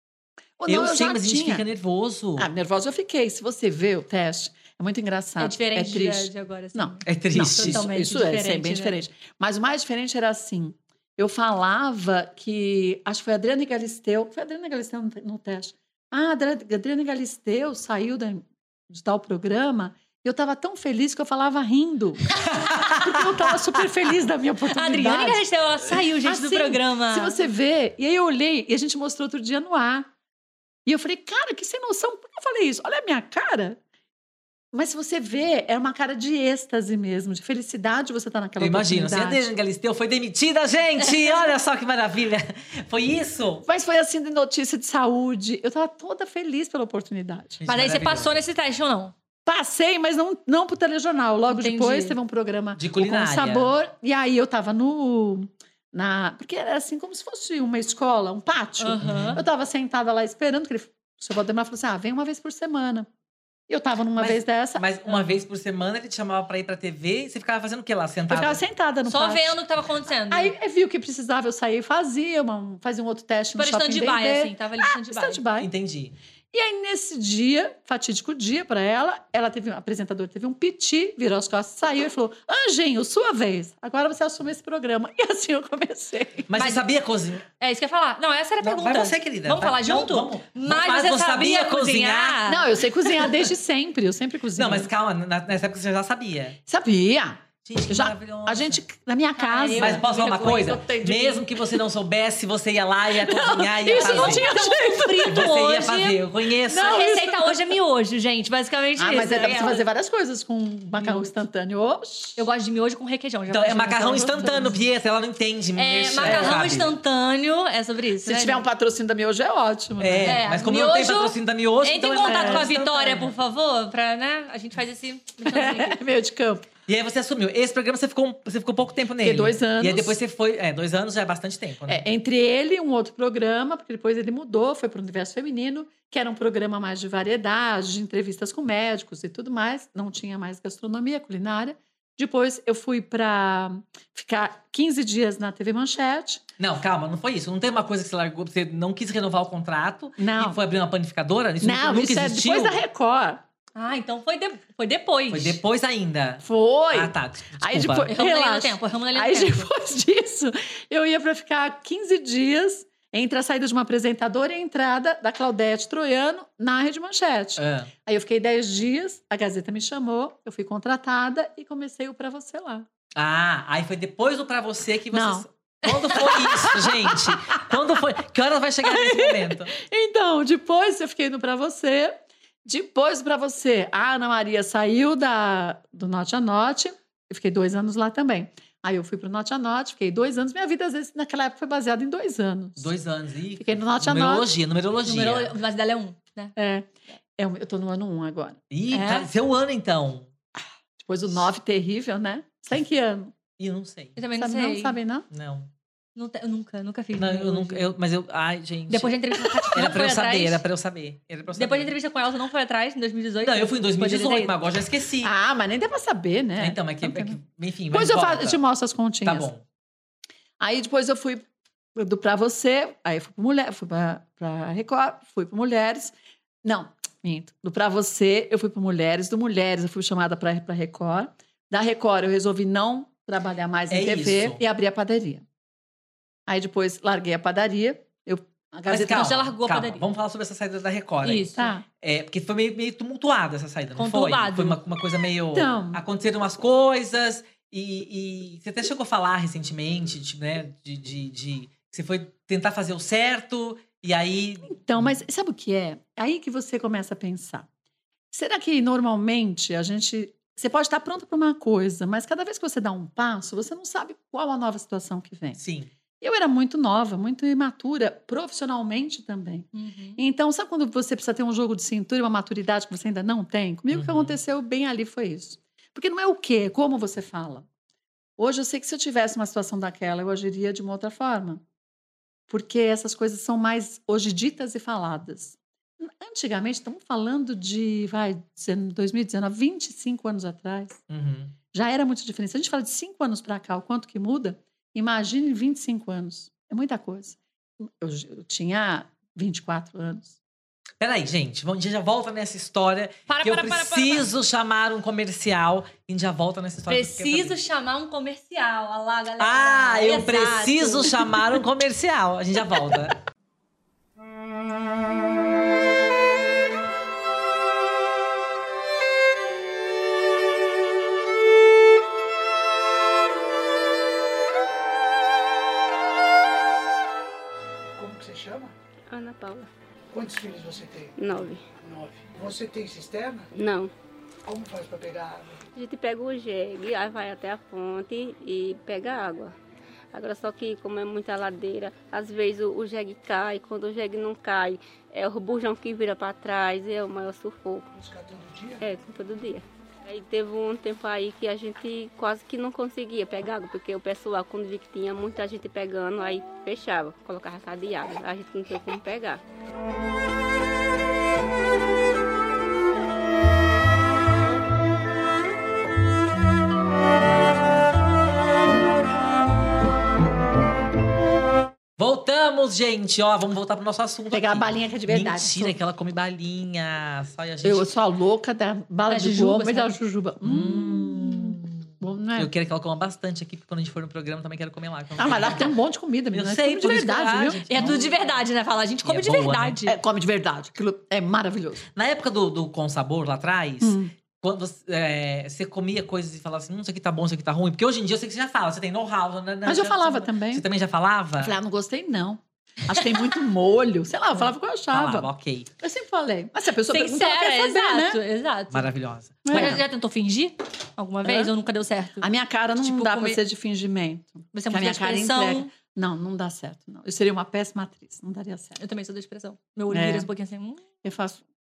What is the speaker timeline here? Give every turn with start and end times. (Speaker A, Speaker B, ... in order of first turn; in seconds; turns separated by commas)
Speaker A: 0.6-1.6, Speaker B: 0.7-2.5, Speaker A: 2.4-30.1, Speaker C: 5.4-9.0, Speaker B: 7.1-7.8, Speaker B: 22.5-23.1, Speaker C: 24.7-27.4, Speaker A: 30.9-33.8, Speaker A: 34.7-39.5, Speaker B: 38.6-43.6, Speaker A: 43.6-47.6, Speaker B: 47.6-48.4, Speaker C: 47.7-49.1, Speaker A: 49.5-63.1, Speaker C: 51.5-52.2, Speaker B: 52.8-53.7, Speaker C: 58.8-59.4, Speaker B: 59.0-59.4, Speaker A: 63.7-64.8, Speaker B: 64.2-68.6, Speaker A: 68.3-69.6, Speaker C: 69.1-70.5, Speaker A: 70.3-75.7, Speaker C: 73.6-75.4, Speaker B: 75.6-76.2, Speaker A: 76.5-86.5, Speaker B: 86.5-87.5, Speaker C: 86.6-86.8, Speaker C: 87.6-93.3, Speaker B: 88.6-92.4, Speaker A: 92.5-94.9, Speaker B: 94.6-96.6, Speaker A: 96.7-101.5, Speaker B: 97.6-98.8, Speaker C: 99.4-100.3, Speaker B: 99.8-104.5, Speaker A: 103.2-105.5, Speaker C: 103.9-109.8, Speaker B: 105.2-107.0, Speaker A: 106.7-107.8, Speaker A: 109.0-112.4, Speaker C: 111.0-111.3, Speaker C: 112.4-114.8, Speaker B: 113.5-117.0, Speaker C: 115.8-118.6, Speaker A: 116.2-116.6, Speaker A: 118.2-120.4, Speaker B: 120.0-123.3, Speaker C: 120.2-126.0, Speaker A: 122.2-122.8, Speaker A: 125.5-126.7, Speaker B: 126.9-132.1, Speaker A: 129.2-130.2, Speaker A: 131.9-146.4, Speaker B: 146.6-152.8, Speaker A: 150.2-150.6, Speaker A: 151.6-153.4, Speaker C: 153.8-155.6, Speaker B: 155.3-158.1, Speaker A: 156.4-172.9, Speaker C: 158.1-159.7, Speaker B: 167.6-167.9, Speaker B: 173.2-179.7, Speaker A: 175.1-177.7, Speaker A: 178.8-192.9, Speaker B: 192.8-195.6, Speaker A: 193.6-194.5, Speaker C: 195.1-196.5, Speaker A: 196.6-199.3, Speaker B: 198.7-200.3, Speaker A: 201.0-203.3, Speaker B: 203.6-204.2, Speaker C: 204.2-205.0, Speaker A: 204.4-205.3, Speaker B: 205.3-205.7, Speaker C: 206.2-207.9, Speaker B: 207.1-211.9, Speaker C: 208.9-210.6, Speaker C: 211.5-214.6, Speaker B: 213.4-215.3, Speaker A: 215.2-217.4, Speaker B: 216.6-218.6, Speaker A: 217.9-219.5, Speaker B: 219.2-219.6, Speaker A: 220.6-221.4, Speaker A: 222.0-235.4, Speaker B: 233.9-234.6, Speaker A: 236.5-239.4, Speaker B: 238.9-241.5, Speaker C: 239.0-240.1, Speaker C: 241.2-241.7, Speaker A: 241.6-241.8, Speaker B: 242.0-255.1, Speaker C: 244.0-244.8, Speaker A: 245.5-246.0, Speaker A: 254.7-257.7, Speaker A: 258.3-265.6, Speaker B: 265.6-265.9, Speaker A: 266.2-277.7, Speaker C: 269.7-270.2, Speaker B: 273.9-274.4, Speaker A: 278.4-281.6, Speaker A: 282.5-291.0, Speaker B: 291.1-291.6, Speaker A: 291.7-300.4, Speaker B: 301.0-307.6, Speaker C: 303.3-304.3, Speaker C: 306.9-311.4, Speaker B: 309.4-313.2, Speaker D: 328.0-328.7, Speaker E: 329.1-329.7, Speaker D: 330.1-331.2, Speaker E: 331.2-331.6, Speaker D: 331.8-333.5, Speaker E: 333.6-333.9, Speaker D: 334.5-335.6, Speaker E: 335.8-339.5, Speaker E: 340.1-347.9, Speaker D: 348.0-348.8, Speaker E: 348.8-359.4, Speaker B: 372.0-377.9, Speaker A: 374.3-375.8, Speaker A: 377.6-382.5, Speaker C: 379.1-379.9, Speaker B: 380.4-381.8, Speaker B: 382.4-385.7, Speaker A: 385.2-388.0, Speaker B: 386.3-388.0, Speaker C: 387.7-390.0, Speaker B: 389.0-389.8, Speaker A: 389.9-391.9, Speaker B: 391.9-401.6, Speaker A: 393.8-394.1, Speaker A: 399.6-400.7, Speaker A: 401.4-408.2, Speaker B: 404.9-405.7, Speaker C: 406.9-408.9, Speaker B: 408.7-409.8, Speaker A: 409.4-409.9, Speaker C: 409.5-412.3, Speaker A: 411.2-411.5, Speaker A: 412.2-418.8, Speaker C: 412.8-413.4, Speaker C: 414.5-415.7, Speaker C: 418.8-420.8, Speaker A: 419.9-420.3, Speaker A: 421.0-421.4